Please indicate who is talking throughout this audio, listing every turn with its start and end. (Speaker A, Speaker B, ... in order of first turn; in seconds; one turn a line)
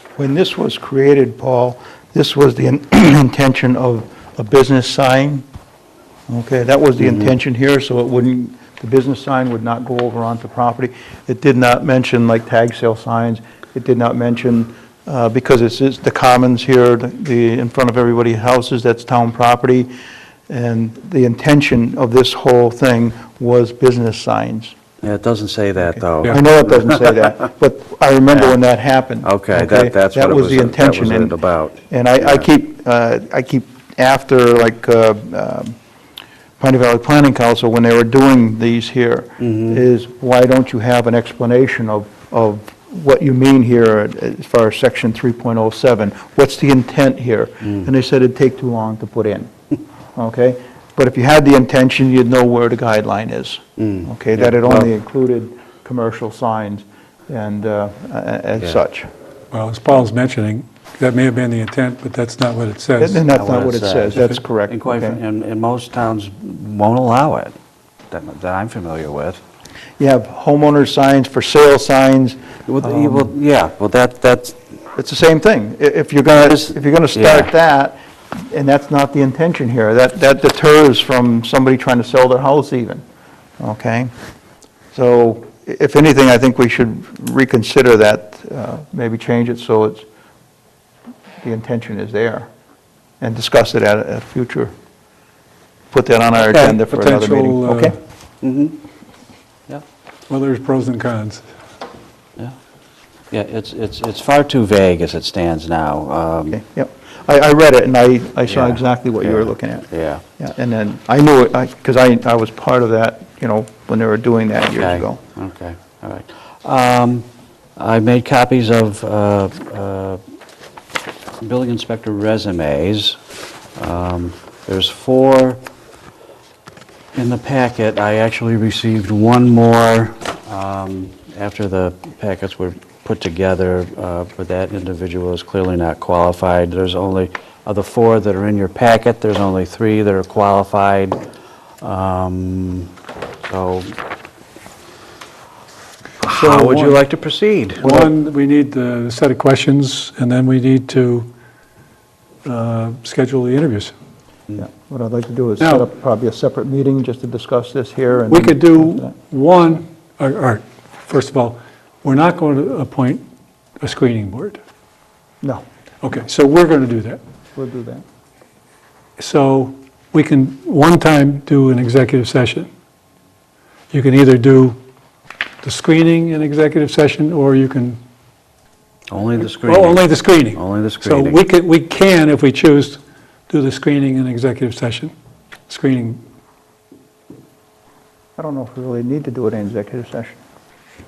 Speaker A: 0.2-5.5
Speaker A: 6.3-19.9
Speaker A: 20.5-24.8
Speaker B: 25.0-26.4
Speaker A: 26.0-31.4
Speaker B: 29.2-32.5
Speaker A: 31.9-35.8
Speaker A: 36.6-49.5
Speaker A: 50.2-59.1
Speaker B: 53.8-54.9
Speaker C: 59.5-63.3
Speaker A: 63.0-65.2
Speaker B: 63.3-67.5
Speaker B: 68.1-69.4
Speaker A: 70.0-73.3
Speaker B: 72.7-74.6
Speaker A: 75.0-83.0
Speaker B: 76.3-77.5
Speaker A: 83.6-84.1
Speaker A: 84.9-90.0
Speaker A: 91.4-92.5
Speaker A: 93.2-94.7
Speaker A: 95.9-98.0
Speaker C: 96.4-98.0
Speaker B: 98.4-98.8
Speaker C: 100.3-101.5
Speaker B: 103.3-106.6
Speaker A: 106.5-109.9
Speaker B: 108.5-110.2
Speaker A: 110.4-115.2
Speaker B: 114.8-120.2
Speaker B: 121.4-123.2
Speaker B: 123.8-125.6
Speaker B: 127.1-141.2
Speaker B: 141.8-142.9
Speaker B: 143.5-143.9
Speaker B: 146.2-148.1
Speaker C: 146.3-147.0
Speaker C: 147.8-151.3
Speaker C: 152.4-153.9
Speaker A: 154.6-159.1
Speaker C: 155.6-155.9
Speaker C: 158.3-163.2
Speaker C: 163.8-164.6
Speaker C: 166.0-167.2
Speaker A: 167.6-168.0
Speaker C: 169.2-172.7
Speaker C: 173.9-174.8
Speaker C: 175.6-178.0
Speaker B: 179.1-181.4
Speaker C: 179.6-185.1
Speaker C: 185.7-186.2
Speaker A: 188.4-190.4